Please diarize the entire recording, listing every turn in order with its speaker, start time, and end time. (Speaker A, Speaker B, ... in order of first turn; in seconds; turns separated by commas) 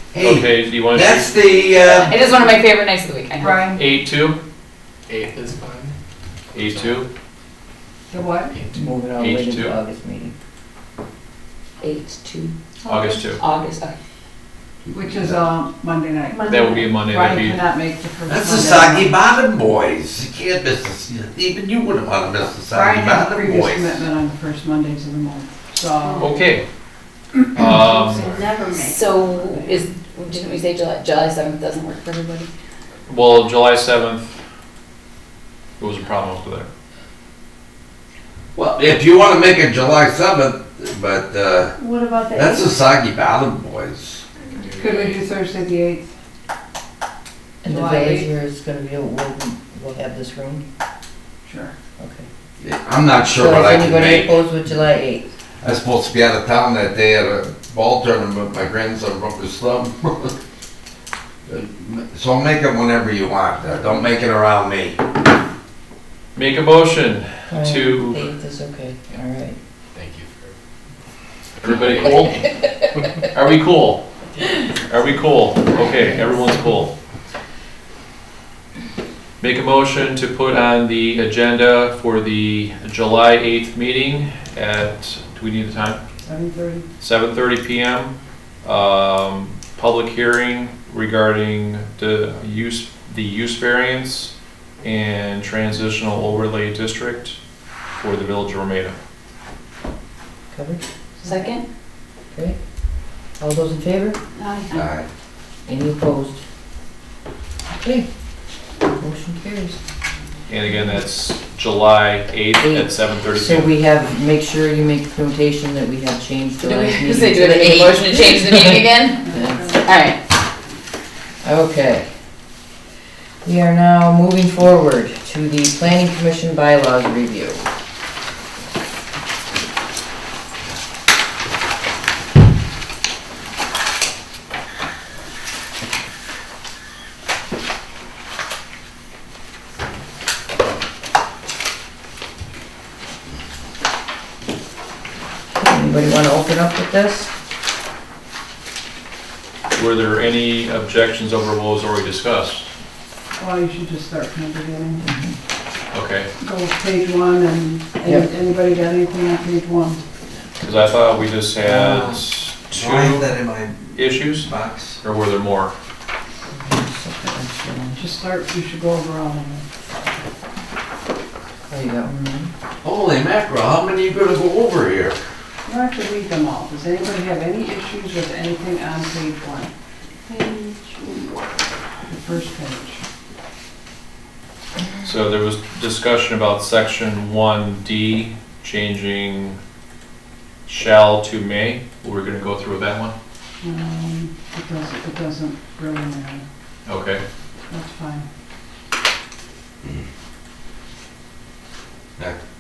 Speaker A: 0.1-2.1, Speaker B: 0.2-1.3, Speaker C: 1.9-3.7, Speaker D: 3.4-3.8, Speaker B: 3.8-4.4, Speaker E: 5.1-6.0, Speaker B: 6.5-7.1, Speaker E: 6.6-7.0, Speaker D: 8.1-8.6, Speaker E: 8.5-8.8, Speaker F: 8.7-10.3, Speaker B: 9.2-9.7, Speaker C: 11.8-12.5, Speaker B: 12.9-13.4, Speaker C: 13.3-13.9, Speaker D: 14.9-16.4, Speaker G: 16.3-16.8, Speaker B: 16.4-17.6, Speaker D: 17.0-19.1, Speaker A: 18.3-24.0, Speaker D: 22.8-26.2, Speaker G: 26.0-26.3, Speaker B: 26.2-26.6, Speaker G: 27.4-29.9, Speaker B: 27.5-28.3, Speaker C: 28.8-32.5, Speaker B: 33.0-34.4, Speaker B: 35.8-36.7, Speaker A: 38.5-41.7, Speaker G: 41.8-42.8, Speaker A: 42.3-44.2, Speaker E: 44.5-45.2, Speaker D: 44.8-46.1, Speaker F: 47.6-50.6, Speaker D: 47.7-48.2, Speaker D: 51.5-51.7, Speaker F: 52.0-52.3, Speaker A: 52.6-54.4, Speaker F: 53.3-55.3, Speaker A: 55.6-60.3, Speaker A: 61.5-65.0, Speaker B: 66.3-68.3, Speaker F: 67.5-69.6, Speaker E: 69.9-70.6, Speaker B: 71.6-72.6, Speaker B: 73.3-74.0, Speaker B: 74.9-76.9, Speaker F: 75.8-76.4, Speaker B: 79.4-86.0, Speaker D: 86.2-86.8, Speaker B: 87.0-97.4, Speaker B: 98.0-99.0, Speaker F: 100.5-100.8, Speaker D: 101.2-101.5, Speaker C: 101.2-101.6, Speaker F: 102.3-104.2, Speaker C: 104.4-104.9, Speaker A: 104.8-105.1, Speaker F: 105.7-106.4, Speaker F: 107.7-108.1, Speaker F: 109.0-109.8, Speaker B: 110.5-113.7, Speaker F: 112.6-119.7, Speaker C: 116.6-119.3, Speaker C: 119.8-120.2, Speaker F: 121.4-122.1, Speaker F: 123.4-127.6, Speaker F: 145.5-147.3, Speaker B: 149.7-152.7, Speaker D: 153.4-155.0, Speaker F: 155.0-155.4, Speaker B: 155.9-156.3, Speaker D: 156.4-160.0, Speaker B: 160.6-163.3, Speaker F: 161.6-162.2, Speaker A: 162.8-163.9, Speaker B: 163.9-165.7, Speaker A: 164.4-165.0, Speaker F: 166.5-168.0, Speaker D: 168.0-169.7, Speaker F: 171.7-172.5, Speaker A: 172.8-175.2, Speaker D: 175.7-179.7, Speaker G: 180.3-181.4, Speaker D: 182.1-183.0, Speaker B: 185.0-189.6, Speaker B: 190.7-193.1, Speaker D: 193.6-196.4, Speaker B: 196.8-197.2, Speaker D: 197.7-198.2